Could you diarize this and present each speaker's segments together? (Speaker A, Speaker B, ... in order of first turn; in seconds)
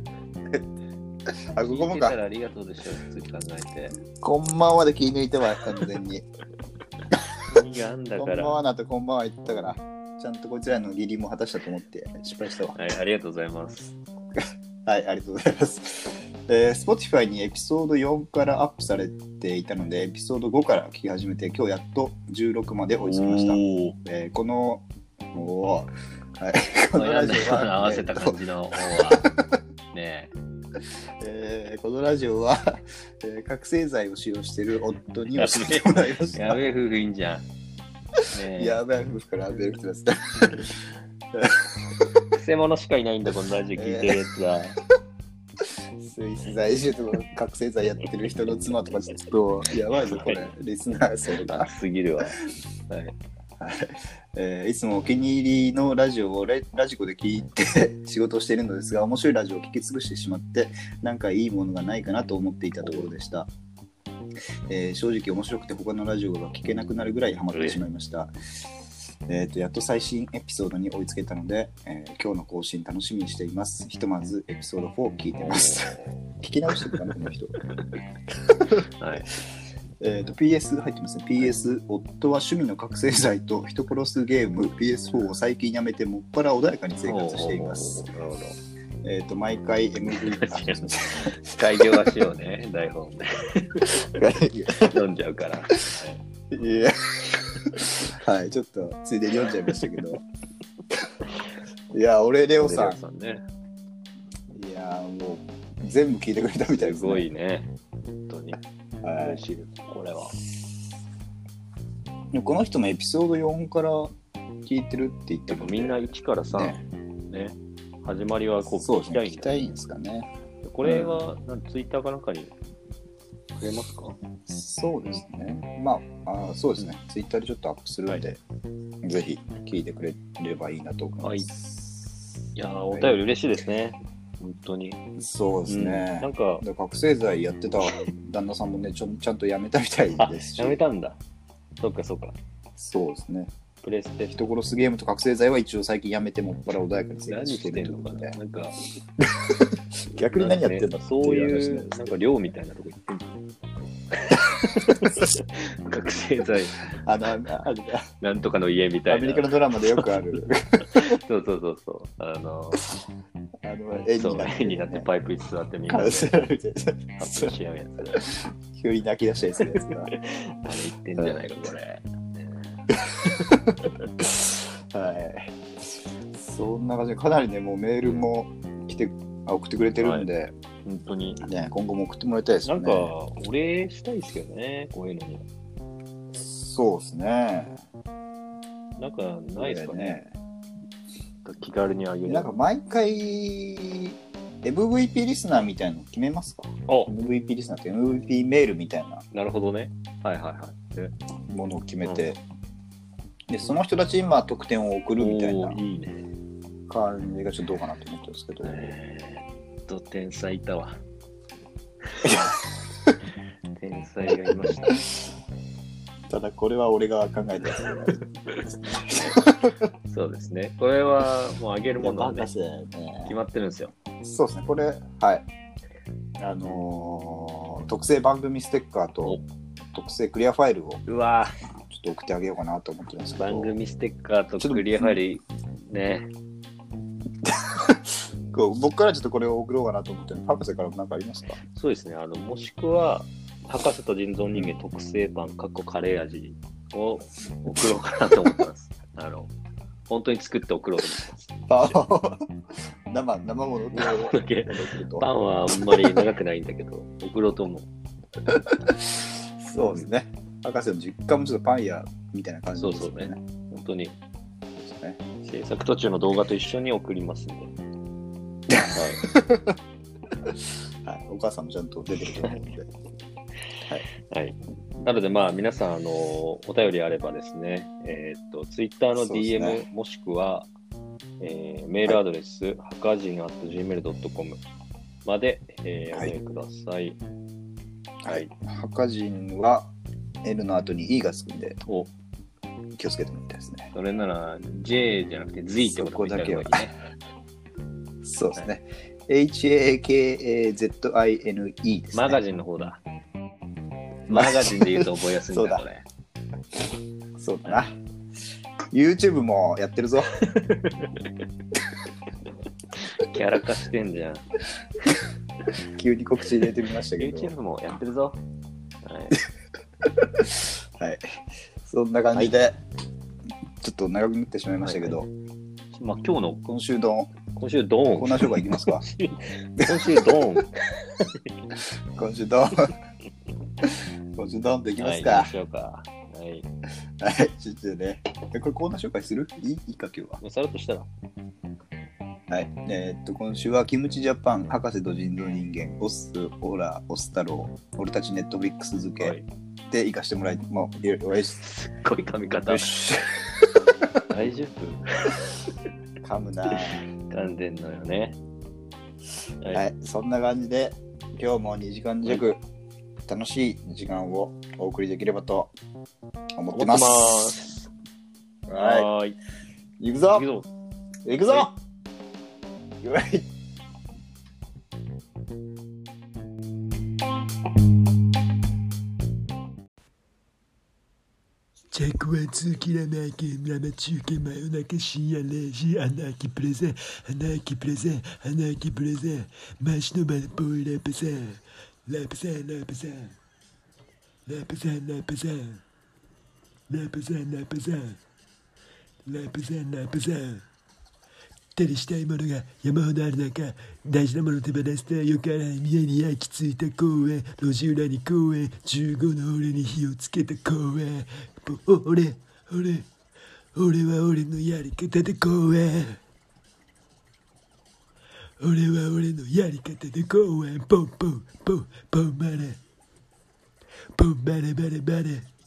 Speaker A: 1.3-2.2, 4.2-6.2, 8.2-12.8, 14.4-29.4, 31.2-36.6, 38.2-40.7, 41.3-42.0, 43.8-44.2, 45.6-51.7, 53.6-63.5, 64.7-68.3, 69.3-77.5, 78.5-78.9, 80.0-88.1, 89.0-92.1, 93.9-95.0, 96.5-100.2, 101.9-103.0, 104.5-107.3, 109.0-109.4, 112.3-114.1, 114.7-116.8, 118.8-120.3, 120.8-121.3, 124.5-128.4, 129.0-132.0, 132.6-133.2, 135.2-140.8, 142.8-143.5, 144.3-148.4, 149.2-152.2, 154.9-155.2, 157.0-158.1, 159.1-161.2, 163.6-165.1, 165.9-167.6, 168.2-170.1, 171.2-171.6, 173.0-180.5, 181.4-183.1, 186.3-187.8, 189.6-190.3, 192.3-199.2, 201.5-202.4, 203.5-205.8, 206.9-208.9, 212.2-212.5, 216.3-219.8, 222.0-223.4, 224.2-225.5, 226.4-229.4, 229.9-231.0, 231.9-233.8, 234.6-235.2, 237.4-241.6, 251.7-252.5, 253.1-256.3, 258.5-263.4, 264.8-265.2, 268.7-269.8, 270.5-272.9, 279.2-279.9, 288.2-289.9, 290.4-291.8, 293.0-293.9, 295.8-296.9, 298.2-302.4, 304.3-305.8, 307.4-308.0, 308.9-310.5, 315.7-317.5, 320.0-322.8, 323.8-325.3, 326.6-327.3, 328.1-329.1, 329.8-330.6, 332.2-332.9, 333.8-335.5, 337.2-340.4, 342.5-349.4, 349.9-351.6, 352.7-353.6, 356.2-357.1, 359.7-362.6, 363.3-365.7, 366.6-367.6, 368.7-369.1, 370.0-370.5, 371.2-371.8, 373.0-373.5
Speaker B: 1.6-4.0, 7.4-8.6, 12.7-13.9, 23.1-24.0, 26.9-29.3, 29.9-30.3, 35.3-37.5, 38.3-38.8, 42.4-44.8, 50.0-50.5, 51.3-53.1, 62.8-63.1, 67.5-67.8, 75.4-76.2, 79.0-79.3, 87.1-88.6, 90.3-94.0, 94.8-96.2, 102.6-103.5, 106.7-108.6, 109.1-110.4, 115.5-119.6, 120.6-122.5, 123.6-124.2, 131.2-131.5, 132.6-135.0, 135.7-136.7, 140.2-141.2, 141.8-142.4, 143.8-144.4, 147.3-148.8, 150.2-153.4, 154.2-156.9, 158.2-160.2, 160.8-162.9, 164.2-166.4, 167.2-168.3, 169.8-172.9, 180.0-180.3, 180.8-181.4, 182.6-185.4, 189.0-190.2, 191.4-192.5, 196.9-197.1, 199.3-201.1, 205.2-206.3, 208.6-211.0, 212.2-212.6, 213.8-215.0, 218.6-219.4, 220.1-222.5, 223.2-223.9, 231.1-231.6, 233.4-236.3, 241.7-249.5, 250.1-252.0, 253.9-257.9, 262.8-264.2, 265.4-267.8, 268.9-269.2, 274.2-280.7, 281.4-284.6, 285.2-287.2, 288.3-288.5, 291.8-292.1, 293.9-296.9, 302.1-303.0, 304.3-306.1, 310.4-311.3, 312.9-314.5, 317.2-318.4, 319.0-319.4, 324.8-325.2, 325.9-326.6, 327.5-331.5, 335.0-336.7, 340.4-341.1, 349.2-349.5, 351.6-353.1, 354.3-355.4, 356.7-358.4, 366.7-367.9, 368.8-369.4, 370.3-370.7
Speaker C: 381.9-393.4, 394.5-395.8, 396.9-398.2, 399.3-400.6, 401.8-413.1, 413.8-416.2, 418.6-422.8, 424.2-425.5